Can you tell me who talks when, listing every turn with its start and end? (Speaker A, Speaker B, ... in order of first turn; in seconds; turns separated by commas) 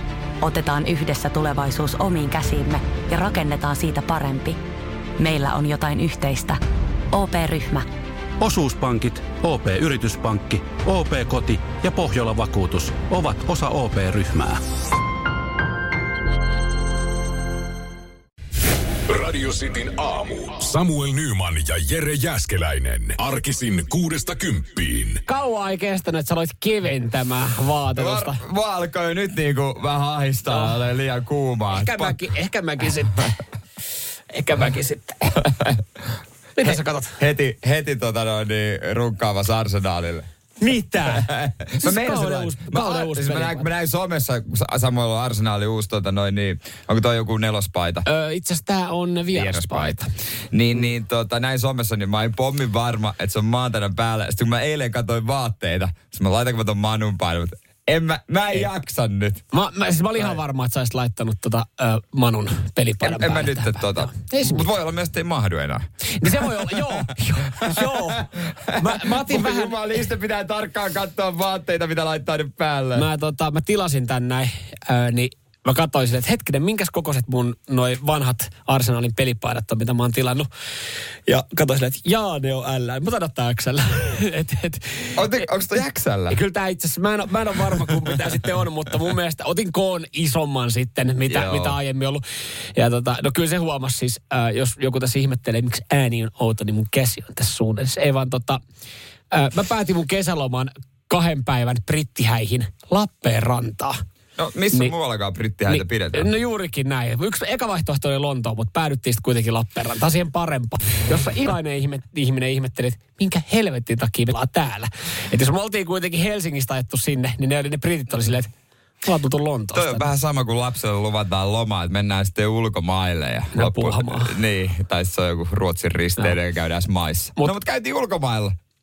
Speaker A: 0.4-4.6, Speaker A: 5.2-6.6, Speaker A: 7.1-7.9, Speaker B: 8.4-14.6, Speaker C: 19.1-25.2, Speaker D: 25.3-28.4, Speaker E: 28.0-32.2, Speaker D: 30.5-30.7, Speaker D: 31.7-33.2, Speaker D: 34.3-35.2, Speaker E: 35.3-35.8, Speaker D: 36.6-37.2, Speaker E: 36.6-40.3, Speaker D: 40.6-41.3, Speaker E: 41.1-48.0, Speaker D: 41.8-43.7, Speaker D: 48.0-50.1, Speaker E: 49.3-50.0, Speaker E: 50.5-59.4, Speaker D: 59.5-64.7, Speaker E: 63.0-73.1, Speaker D: 66.2-69.8, Speaker D: 72.9-80.5, Speaker D: 81.3-85.2, Speaker E: 85.2-86.4, Speaker D: 86.3-92.2, Speaker E: 91.3-91.8, Speaker D: 92.8-98.6, Speaker D: 99.3-104.0, Speaker E: 104.4-106.3, Speaker D: 105.7-118.5, Speaker D: 119.0-120.1, Speaker E: 119.7-128.6, Speaker D: 123.5-124.4